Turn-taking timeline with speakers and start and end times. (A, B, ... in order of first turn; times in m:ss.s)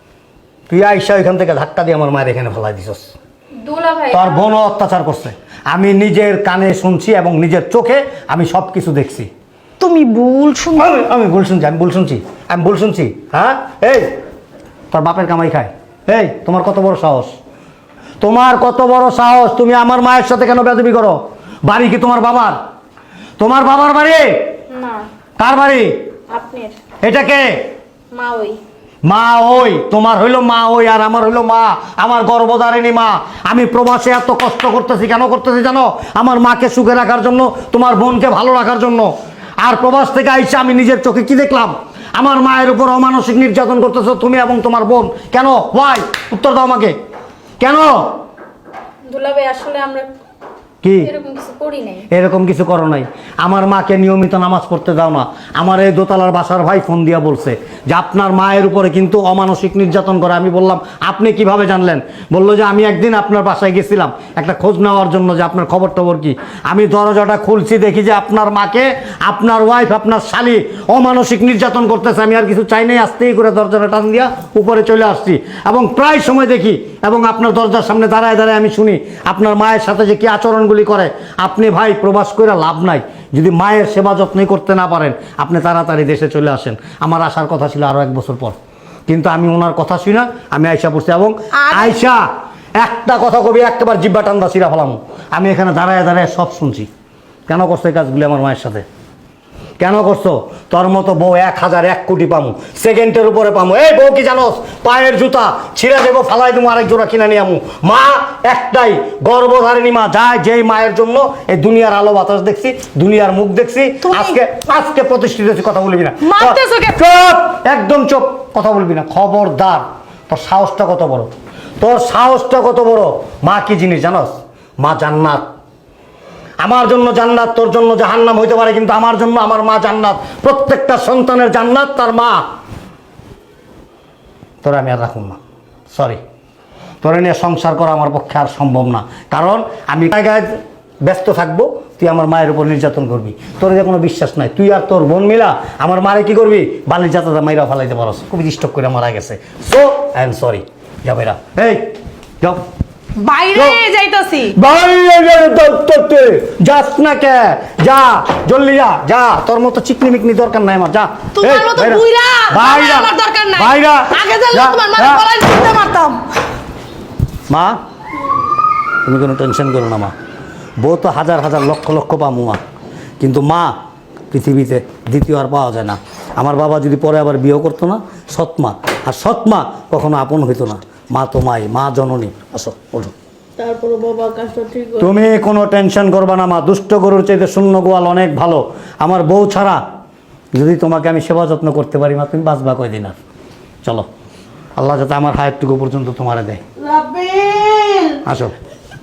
0:00.7-0:03.1 A
0:03.6-0:04.5 B
0:04.1-0:09.3 A
0:09.8-0:11.0 C
0:10.8-0:14.1 A
0:14.9-0:17.4 A
0:18.2-0:22.6 A
0:23.4-0:24.5 A
0:24.7-0:25.0 B
0:25.4-0:25.9 A
0:26.3-0:26.7 B
0:27.0-0:27.5 A
0:28.1-0:28.6 B
0:29.0-0:47.0 A
0:47.6-0:48.2 A
0:49.1-0:50.1 B
0:50.8-0:51.1 A
0:51.0-0:52.1 B
0:52.1-1:28.6 A
1:29.1-1:32.2 A
1:31.6-1:32.0 C
1:32.8-1:36.9 A
1:37.5-1:38.8 A
1:39.8-2:05.5 A
1:54.0-1:54.4 C
1:56.2-1:57.0 C
2:06.6-2:12.4 A
2:14.6-2:15.4 A
2:15.9-2:16.2 A
2:17.0-2:32.6 A
2:33.2-2:34.5 C
2:33.5-2:33.8 A
2:34.6-2:45.2 A
2:41.4-2:46.2 C
2:47.5-2:47.8 A
2:49.0-2:50.1 A
2:50.8-2:52.6 A
2:53.2-2:53.7 A
2:54.3-3:09.8 A
3:10.6-3:13.2 A
3:14.8-3:18.5 A